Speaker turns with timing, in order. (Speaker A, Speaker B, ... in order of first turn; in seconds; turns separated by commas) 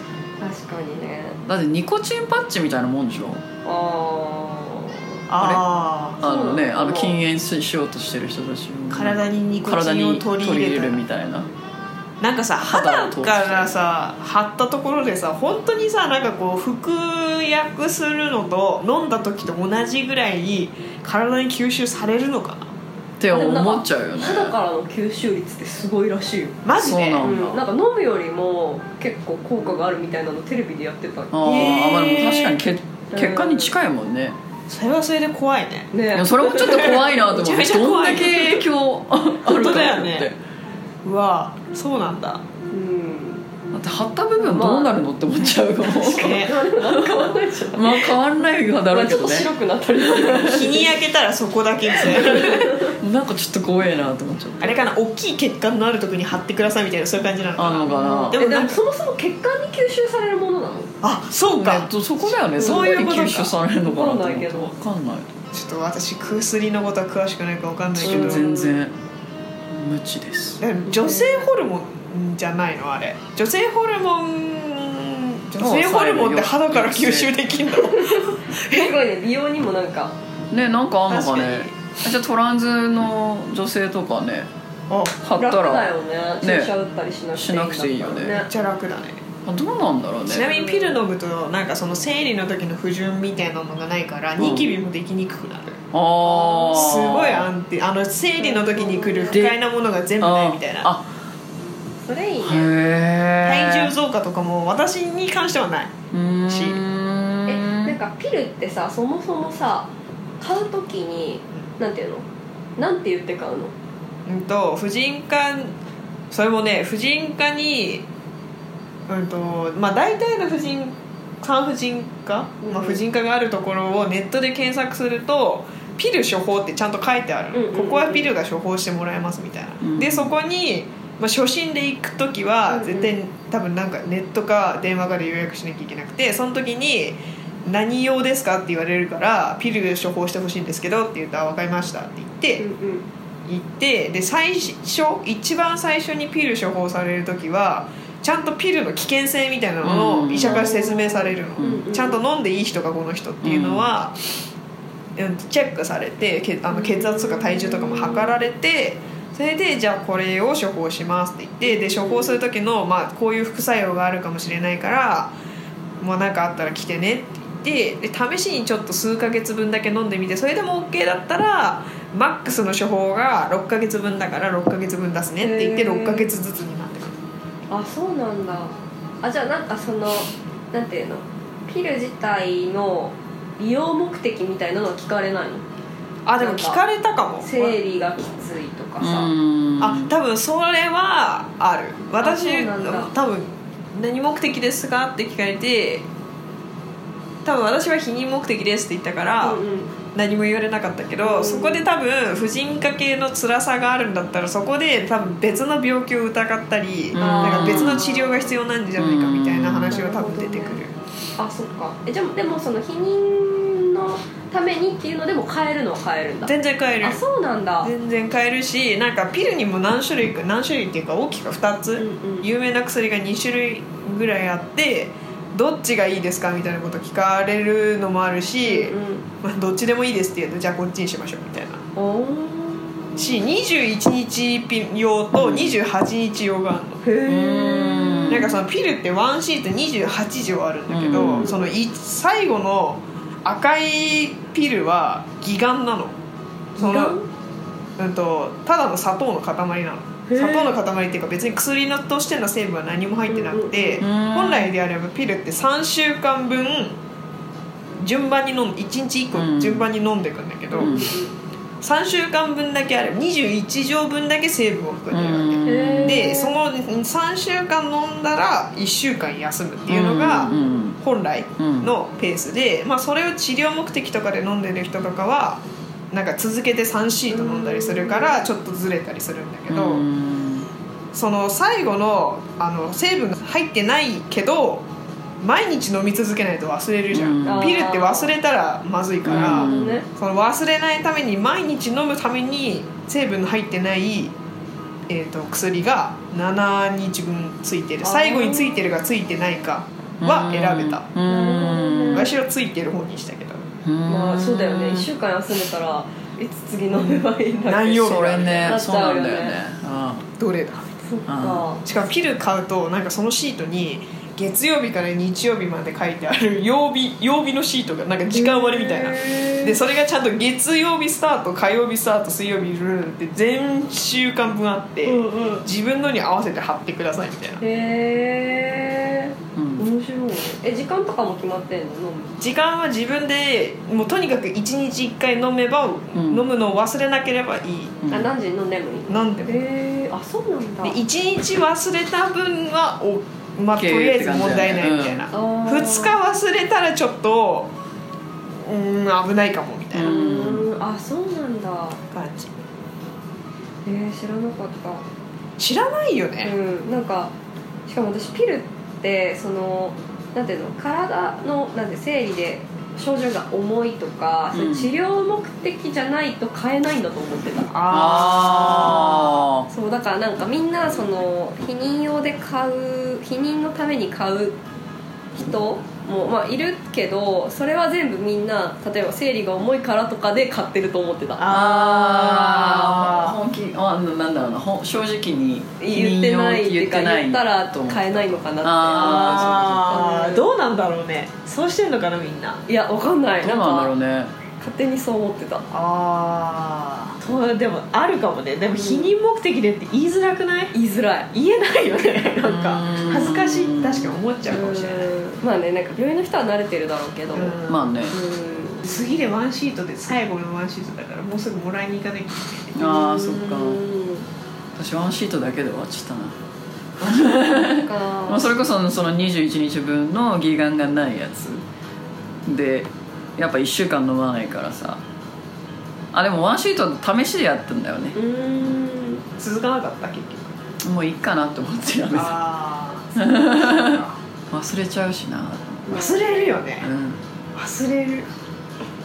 Speaker A: 0.4-1.4, Speaker B: 1.4-3.4, Speaker A: 3.6-5.2, Speaker C: 5.3-6.2, Speaker A: 6.2-7.2, Speaker B: 6.2-11.5, Speaker C: 8.9-11.0, Speaker C: 12.2-22.7, Speaker B: 12.6-13.7, Speaker B: 23.2-24.5, Speaker A: 23.3-26.6, Speaker C: 26.6-27.3, Speaker B: 26.7-27.6, Speaker A: 27.2-31.6, Speaker B: 31.3-34.4, Speaker C: 31.4-32.6, Speaker A: 33.1-33.7, Speaker C: 34.7-35.9, Speaker A: 35.9-37.2, Speaker B: 36.1-40.4, Speaker C: 36.6-38.7, Speaker C: 39.4-40.3, Speaker C: 41.0-42.4, Speaker A: 42.7-43.4, Speaker B: 43.7-50.6, Speaker A: 44.4-44.9, Speaker A: 46.0-48.2, Speaker C: 46.0-46.6, Speaker A: 48.9-50.9, Speaker C: 50.4-52.8, Speaker A: 52.0-52.9, Speaker B: 52.0-54.8, Speaker C: 54.6-58.8, Speaker B: 57.5-58.4, Speaker A: 57.9-60.9, Speaker C: 61.0-63.5, Speaker B: 61.5-65.4, Speaker A: 62.6-63.3, Speaker A: 63.8-64.7, Speaker C: 65.5-68.5, Speaker B: 68.0-68.9, Speaker A: 68.0-68.8, Speaker B: 69.7-70.6, Speaker C: 70.6-78.9, Speaker A: 70.8-71.5, Speaker B: 75.6-77.4, Speaker A: 77.9-80.1, Speaker B: 80.5-84.5, Speaker C: 81.1-81.8, Speaker C: 84.9-85.2, Speaker B: 85.2-86.7, Speaker A: 85.4-88.5, Speaker B: 87.3-88.4, Speaker C: 88.3-89.2, Speaker B: 89.5-90.5, Speaker C: 90.2-95.8, Speaker A: 90.5-91.0, Speaker B: 94.4-94.7, Speaker B: 95.9-97.5, Speaker A: 96.3-96.8, Speaker C: 96.7-100.9, Speaker A: 98.4-99.5, Speaker B: 99.3-99.6, Speaker B: 100.2-101.1, Speaker A: 102.0-102.7, Speaker B: 102.4-103.9, Speaker C: 103.4-106.8, Speaker B: 106.1-108.0, Speaker A: 107.5-112.2, Speaker A: 112.8-113.7, Speaker C: 114.2-115.8, Speaker C: 116.3-118.0, Speaker C: 119.1-142.6, Speaker A: 122.6-123.0, Speaker A: 127.5-128.3, Speaker B: 129.8-130.3, Speaker A: 132.7-133.1, Speaker A: 142.6-143.1, Speaker C: 143.4-154.4, Speaker B: 149.8-150.7, Speaker A: 150.3-152.2, Speaker B: 153.4-153.9, Speaker C: 155.2-165.3, Speaker A: 156.7-158.3, Speaker A: 161.6-162.4, Speaker C: 166.0-177.2, Speaker A: 175.4-176.3, Speaker A: 177.7-185.6, Speaker C: 186.2-187.8, Speaker A: 186.4-186.8, Speaker A: 187.4-189.3, Speaker B: 189.0-190.1, Speaker C: 189.8-196.1, Speaker A: 192.2-193.1, Speaker C: 197.4-199.6, Speaker A: 199.4-199.9, Speaker C: 200.1-210.9, Speaker A: 201.2-201.8, Speaker B: 207.1-208.1, Speaker A: 207.2-208.5, Speaker B: 209.0-210.0, Speaker A: 209.9-210.8, Speaker A: 211.4-217.9, Speaker C: 216.4-217.2, Speaker C: 217.8-231.8, Speaker A: 222.0-222.5, Speaker A: 228.6-229.2, Speaker A: 231.9-233.4, Speaker C: 233.2-237.0, Speaker B: 235.3-235.8, Speaker A: 237.0-238.4, Speaker B: 237.2-238.5, Speaker C: 238.3-246.2, Speaker B: 240.9-241.5, Speaker A: 241.3-241.7, Speaker C: 246.8-247.2, Speaker A: 246.8-247.2, Speaker C: 248.0-257.0, Speaker A: 250.3-250.7, Speaker A: 253.3-254.0, Speaker B: 254.0-254.7, Speaker C: 258.0-261.1, Speaker B: 259.3-259.9, Speaker A: 260.7-261.3, Speaker B: 260.8-261.1, Speaker C: 261.8-280.0, Speaker B: 265.1-266.2, Speaker A: 265.6-266.6, Speaker B: 269.9-271.0, Speaker A: 270.4-270.8, Speaker B: 271.6-271.9, Speaker A: 277.3-278.4, Speaker B: 279.7-280.7, Speaker C: 281.1-284.9, Speaker C: 285.4-294.3, Speaker B: 287.1-287.8, Speaker A: 287.4-288.3, Speaker B: 289.2-290.0, Speaker A: 289.3-290.1, Speaker C: 295.1-301.1, Speaker A: 298.0-298.8, Speaker B: 300.2-302.3, Speaker A: 301.2-302.3, Speaker C: 302.1-303.7, Speaker B: 303.8-305.1, Speaker A: 304.1-309.6, Speaker C: 306.9-308.8, Speaker B: 307.9-310.3, Speaker C: 310.4-311.0, Speaker A: 311.0-311.8, Speaker B: 311.3-311.6, Speaker C: 311.8-327.6, Speaker A: 318.3-319.8, Speaker A: 325.1-325.6, Speaker A: 327.6-332.4, Speaker B: 329.6-329.9, Speaker C: 332.4-338.0, Speaker B: 336.1-336.4, Speaker B: 338.0-338.3, Speaker A: 338.1-341.0, Speaker C: 339.1-339.6, Speaker C: 340.8-347.7, Speaker B: 343.7-345.3, Speaker A: 345.3-346.2, Speaker C: 348.6-350.1, Speaker B: 349.9-350.7, Speaker A: 350.0-352.0, Speaker C: 352.1-352.5, Speaker A: 353.8-355.0, Speaker C: 355.6-356.5, Speaker A: 356.4-357.3, Speaker A: 357.9-367.8, Speaker B: 364.5-364.9, Speaker C: 367.7-369.4, Speaker B: 367.9-369.7, Speaker A: 369.7-374.6, Speaker A: 375.4-381.5, Speaker C: 381.4-383.4, Speaker B: 381.5-389.9, Speaker A: 385.8-390.5, Speaker C: 388.9-392.6, Speaker A: 392.7-393.9, Speaker B: 393.4-394.3, Speaker A: 394.6-395.6, Speaker C: 395.7-400.7, Speaker A: 398.7-399.1, Speaker A: 400.7-401.3, Speaker C: 401.3-405.1, Speaker B: 402.3-404.1, Speaker A: 404.5-407.6, Speaker C: 407.3-407.9, Speaker B: 407.7-408.1, Speaker A: 408.1-408.9, Speaker C: 408.8-412.8, Speaker B: 412.7-413.8, Speaker A: 412.8-414.3, Speaker B: 414.7-416.3, Speaker B: 417.0-421.6, Speaker A: 417.8-418.6, Speaker B: 422.4-425.0, Speaker B: 426.1-428.1, Speaker A: 428.1-429.2, Speaker C: 429.4-430.6, Speaker B: 430.8-432.4, Speaker C: 432.1-434.2, Speaker B: 433.1-436.0, Speaker A: 435.9-436.6, Speaker C: 435.9-436.9, Speaker B: 436.8-437.2, Speaker C: 437.5-438.3